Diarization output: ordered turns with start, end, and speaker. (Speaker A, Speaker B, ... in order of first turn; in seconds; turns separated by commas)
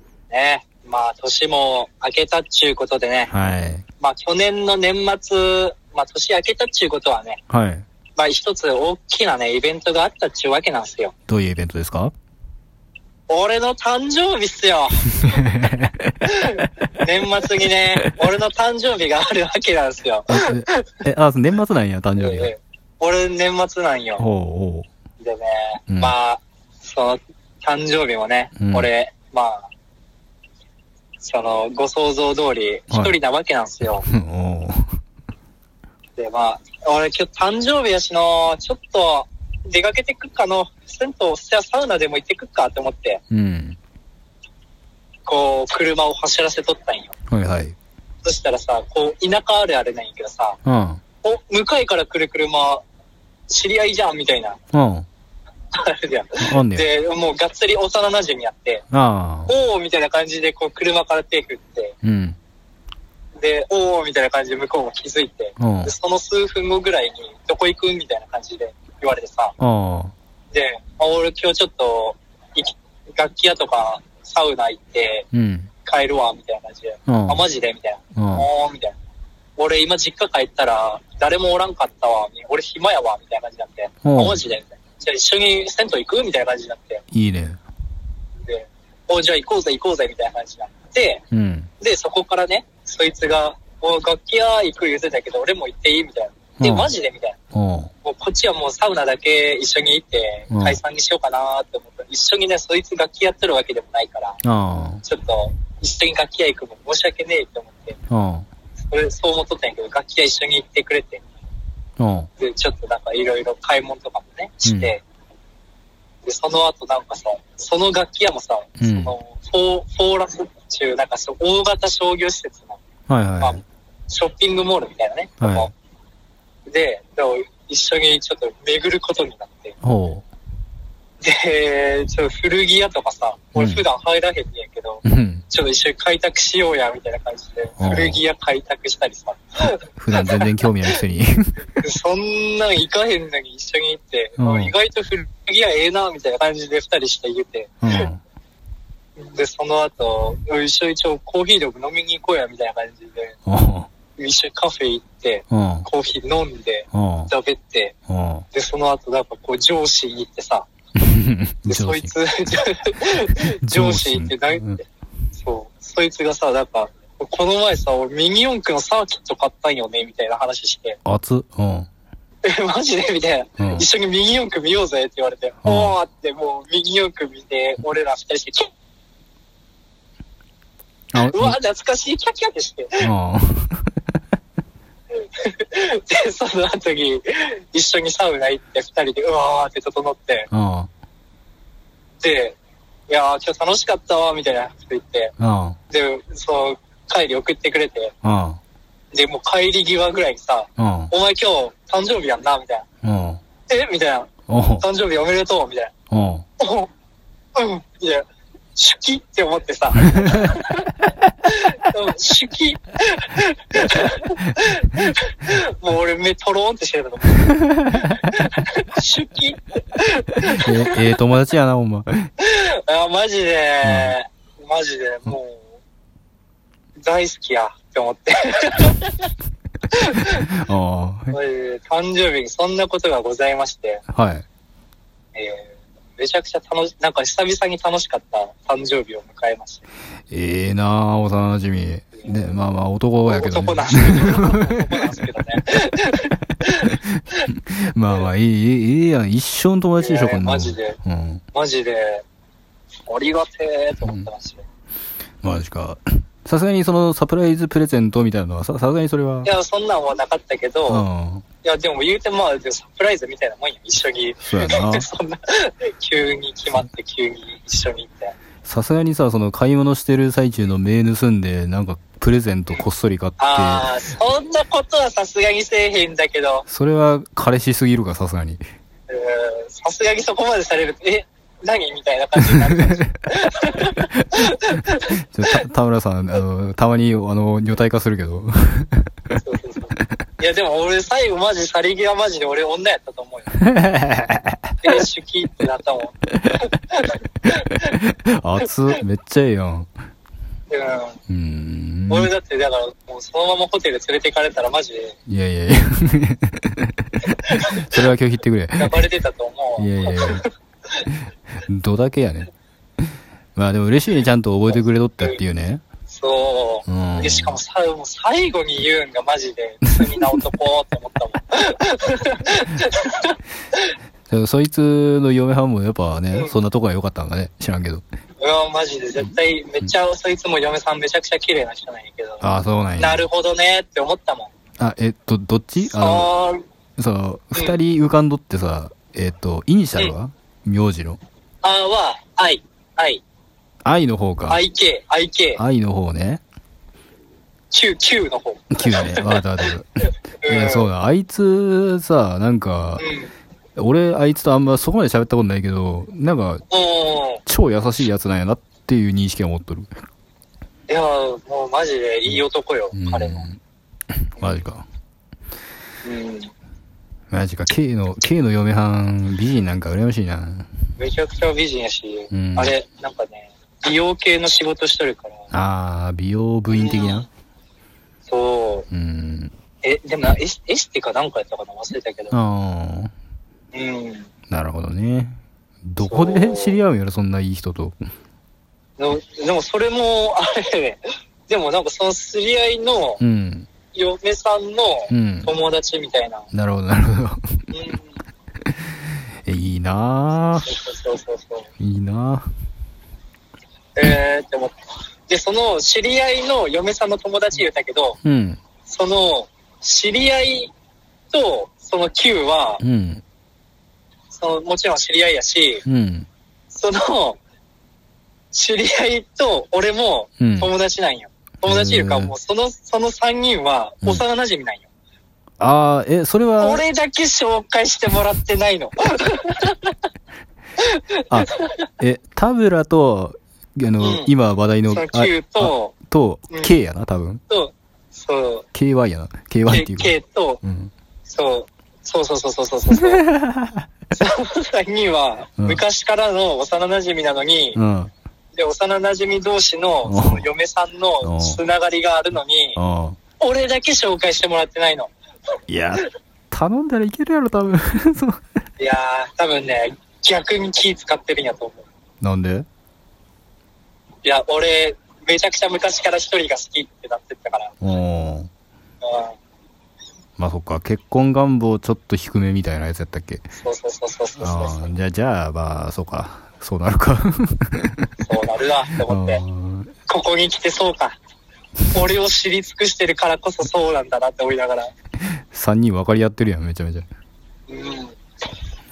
Speaker A: 0.3-3.3, Speaker B: 3.3-3.8, Speaker A: 4.0-7.4, Speaker B: 7.5-7.8, Speaker A: 8.2-11.1, Speaker B: 11.3-12.1, Speaker A: 13.3-15.3, Speaker B: 15.2-16.1, Speaker A: 16.2-20.8, Speaker B: 20.3-22.5, Speaker A: 22.2-24.2, Speaker B: 24.2-24.9, Speaker A: 25.2-29.7, Speaker B: 25.9-26.1, Speaker B: 28.6-28.9, Speaker A: 31.2-34.0, Speaker B: 34.0-34.8, Speaker A: 36.2-43.2, Speaker B: 43.3-43.8, Speaker A: 45.3-47.1, Speaker B: 47.3-47.7, Speaker A: 48.2-50.6, Speaker B: 50.6-51.0, Speaker A: 51.2-52.8, Speaker A: 53.5-54.6, Speaker B: 54.7-55.1, Speaker A: 55.7-58.9, Speaker B: 56.4-56.9, Speaker B: 58.9-59.5, Speaker A: 59.5-62.0, Speaker B: 62.0-62.4, Speaker A: 63.4-69.5, Speaker B: 65.6-65.9, Speaker B: 69.6-70.1, Speaker A: 70.5-75.3, Speaker B: 75.3-75.7, Speaker A: 75.8-78.9, Speaker B: 77.1-77.4, Speaker B: 78.2-78.5, Speaker A: 79.6-87.0, Speaker B: 84.0-84.4, Speaker B: 87.1-87.6, Speaker A: 88.4-91.2, Speaker B: 91.3-91.7, Speaker A: 91.8-97.3, Speaker B: 96.6-96.9, Speaker B: 97.5-97.9, Speaker A: 98.0-104.4, Speaker B: 100.5-100.8, Speaker B: 104.4-105.0, Speaker A: 105.0-108.0, Speaker B: 108.1-108.5, Speaker A: 108.9-111.2, Speaker B: 112.0-112.3, Speaker A: 112.4-115.0, Speaker B: 114.7-114.9, Speaker A: 116.2-122.8, Speaker B: 118.8-119.1, Speaker B: 123.1-123.6, Speaker A: 123.4-125.7, Speaker B: 125.4-125.7, Speaker A: 126.7-129.8, Speaker B: 129.8-130.2, Speaker A: 131.2-140.5, Speaker B: 133.6-133.8, Speaker B: 135.0-135.4, Speaker B: 137.8-138.2, Speaker B: 140.0-141.6, Speaker A: 141.8-148.1, Speaker B: 144.4-144.7, Speaker B: 147.8-148.2, Speaker A: 149.2-153.3, Speaker B: 153.5-153.9, Speaker A: 154.2-157.9, Speaker B: 155.5-155.9, Speaker B: 156.9-157.3, Speaker B: 158.1-158.5, Speaker A: 158.5-160.7, Speaker B: 161.0-162.1, Speaker A: 161.7-164.8, Speaker B: 163.7-164.8, Speaker A: 165.4-171.0, Speaker B: 171.1-171.9, Speaker A: 172.4-178.7, Speaker B: 173.6-173.9, Speaker B: 175.6-175.9, Speaker B: 181.1-181.6, Speaker A: 181.2-183.1, Speaker B: 183.0-183.8, Speaker A: 185.3-190.5, Speaker B: 190.5-190.9, Speaker A: 192.2-192.6, Speaker A: 193.1-195.3, Speaker B: 195.4-195.8, Speaker A: 195.9-198.1, Speaker B: 198.2-198.6, Speaker A: 199.1-202.8, Speaker B: 200.8-201.1, Speaker B: 203.0-203.4, Speaker A: 203.7-205.9, Speaker B: 204.5-204.8, Speaker B: 206.1-206.4, Speaker A: 206.6-206.9, Speaker A: 207.6-208.2, Speaker A: 208.8-210.8, Speaker A: 211.5-217.6, Speaker B: 217.6-218.2, Speaker A: 218.1-221.0, Speaker B: 220.5-222.3, Speaker A: 222.4-225.7, Speaker B: 223.8-224.1, Speaker A: 227.0-229.3, Speaker A: 229.9-230.4, Speaker B: 230.5-231.4, Speaker A: 231.3-234.0, Speaker B: 234.1-234.4, Speaker A: 235.3-239.8, Speaker B: 240.3-244.7, Speaker A: 243.3-246.9, Speaker B: 246.8-251.4, Speaker A: 250.0-251.0, Speaker A: 251.5-252.2, Speaker A: 253.1-254.6, Speaker B: 255.4-259.5, Speaker A: 259.4-261.1, Speaker B: 260.9-261.4, Speaker A: 261.6-268.4, Speaker B: 264.4-265.1, Speaker B: 268.6-273.9, Speaker A: 273.4-276.7, Speaker B: 276.7-278.6, Speaker A: 279.1-285.1, Speaker B: 285.3-289.1, Speaker A: 289.4-293.5, Speaker B: 293.6-294.7, Speaker A: 294.8-296.1, Speaker A: 297.0-297.5, Speaker B: 297.8-299.9, Speaker A: 300.7-301.2, Speaker B: 301.3-302.3, Speaker A: 302.1-305.2, Speaker B: 305.3-309.0, Speaker A: 308.8-310.5, Speaker B: 309.8-310.4, Speaker B: 311.6-312.5, Speaker B: 313.6-315.8, Speaker A: 314.7-315.4, Speaker A: 316.1-323.4, Speaker B: 316.9-317.6, Speaker B: 324.3-328.0, Speaker A: 328.4-332.4, Speaker B: 332.4-333.2, Speaker A: 333.0-334.5, Speaker B: 334.8-336.3, Speaker A: 335.8-336.6, Speaker B: 337.0-341.2, Speaker A: 341.6-343.2, Speaker B: 343.8-344.6, Speaker A: 344.5-345.6, Speaker B: 345.6-346.4, Speaker A: 347.7-349.4, Speaker B: 348.7-349.9, Speaker A: 350.4-350.9, Speaker B: 350.5-353.1, Speaker A: 353.0-353.3, Speaker B: 353.8-356.6, Speaker A: 356.7-357.4, Speaker B: 357.4-359.9, Speaker A: 360.9-363.5, Speaker B: 362.9-363.6, Speaker B: 364.2-364.9, Speaker A: 366.0-366.5, Speaker B: 367.3-370.7, Speaker A: 371.0-375.5, Speaker B: 372.3-372.7, Speaker B: 375.5-377.3, Speaker A: 376.7-377.2, Speaker A: 378.3-378.9, Speaker B: 378.9-379.5, Speaker A: 379.8-382.4, Speaker B: 382.3-383.1, Speaker A: 383.7-384.3, Speaker B: 384.5-387.9, Speaker A: 386.0-386.8, Speaker A: 389.0-393.2, Speaker B: 393.2-393.7, Speaker A: 393.9-396.5, Speaker B: 395.1-395.5, Speaker B: 396.5-397.6, Speaker A: 397.7-398.1, Speaker B: 399.4-400.7, Speaker A: 400.6-401.7, Speaker B: 401.8-402.5, Speaker A: 403.9-404.8, Speaker A: 405.3-408.2, Speaker B: 408.2-408.6, Speaker A: 408.9-410.7, Speaker A: 411.3-412.8, Speaker B: 412.8-413.2, Speaker A: 414.3-415.9, Speaker B: 415.9-416.3, Speaker A: 416.7-417.4, Speaker A: 418.5-424.9, Speaker B: 420.4-420.7, Speaker B: 421.7-422.3, Speaker B: 425.6-426.8, Speaker A: 426.6-429.9, Speaker A: 430.8-431.9, Speaker B: 431.3-437.4, Speaker A: 434.0-434.3, Speaker A: 434.9-435.9, Speaker A: 436.5-436.8, Speaker A: 437.5-438.7, Speaker B: 438.7-440.9, Speaker A: 439.7-440.6, Speaker A: 441.3-443.2, Speaker B: 443.3-443.9, Speaker A: 444.1-447.8, Speaker B: 447.8-448.1, Speaker A: 448.5-452.8, Speaker B: 450.1-450.4, Speaker B: 451.2-451.6, Speaker B: 452.8-453.2, Speaker A: 453.4-455.1, Speaker B: 455.7-458.4, Speaker A: 458.8-461.8, Speaker B: 462.2-462.7, Speaker A: 464.2-467.8, Speaker B: 467.8-468.5, Speaker A: 469.0-469.4, Speaker B: 470.4-473.4, Speaker A: 473.6-474.9, Speaker B: 474.4-478.1, Speaker A: 478.2-479.4, Speaker B: 479.0-479.9, Speaker A: 480.1-481.2, Speaker A: 481.9-484.9, Speaker B: 485.5-487.1, Speaker A: 487.7-488.2